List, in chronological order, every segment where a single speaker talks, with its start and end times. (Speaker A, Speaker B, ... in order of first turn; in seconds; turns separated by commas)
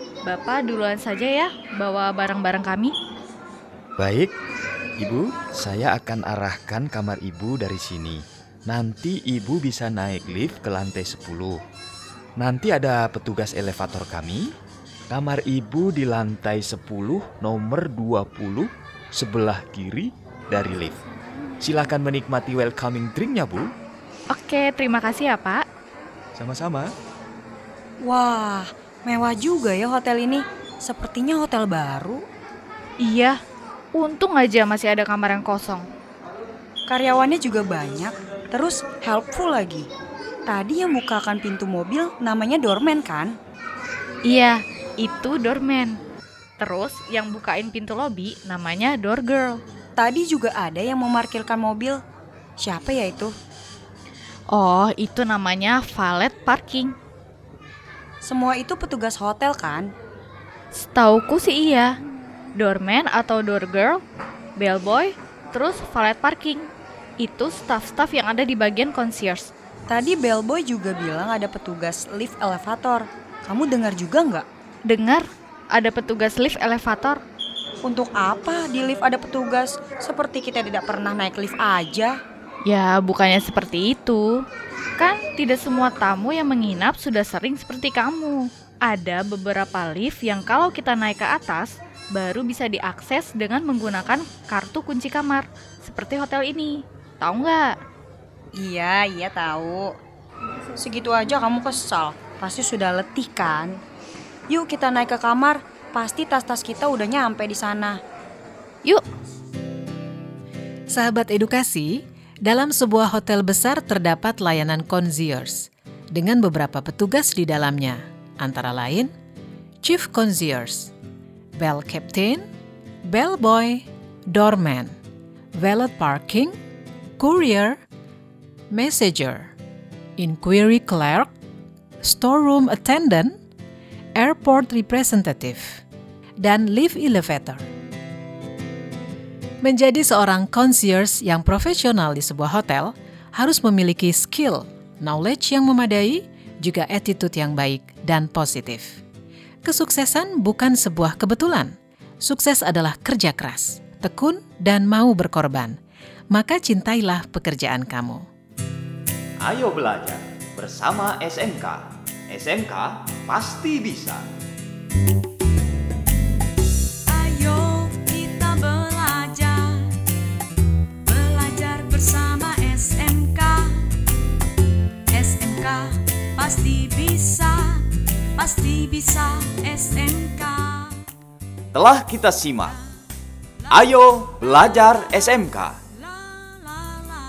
Speaker A: 0.3-2.9, Speaker B: 4.0-4.3, Speaker B: 5.0-11.6, Speaker B: 12.4-14.5, Speaker B: 15.1-21.0, Speaker B: 21.6-23.7, Speaker A: 24.3-25.6, Speaker B: 26.4-26.9, Speaker C: 28.0-32.2, Speaker A: 33.0-33.4, Speaker A: 34.0-35.9, Speaker C: 36.9-39.9, Speaker C: 40.5-43.3, Speaker A: 44.3-46.0, Speaker A: 46.6-49.6, Speaker C: 50.0-52.0, Speaker C: 52.6-53.3, Speaker A: 54.5-56.9, Speaker C: 58.2-59.9, Speaker A: 60.7-61.9, Speaker A: 62.6-64.0, Speaker A: 64.6-66.7, Speaker A: 67.2-69.5, Speaker C: 69.9-74.5, Speaker A: 74.9-77.2, Speaker C: 77.8-82.2, Speaker A: 82.7-84.4, Speaker A: 85.0-97.7, Speaker C: 98.6-99.9, Speaker C: 100.8-103.8, Speaker C: 104.5-108.0, Speaker D: 110.9-119.1, Speaker D: 119.8-120.9, Speaker D: 121.6-122.5, Speaker D: 123.1-125.0, Speaker D: 125.6-126.5, Speaker D: 127.2-127.8, Speaker D: 128.7-129.5, Speaker D: 130.2-131.3, Speaker D: 132.0-133.4, Speaker D: 134.2-135.8, Speaker D: 136.4-137.6, Speaker D: 139.6-149.0, Speaker D: 149.6-155.8, Speaker D: 156.3-158.3, Speaker B: 159.4-164.2, Speaker E: 167.1-170.0, Speaker E: 171.0-174.0, Speaker E: 175.1-181.0, Speaker B: 181.7-182.8, Speaker B: 183.7-185.8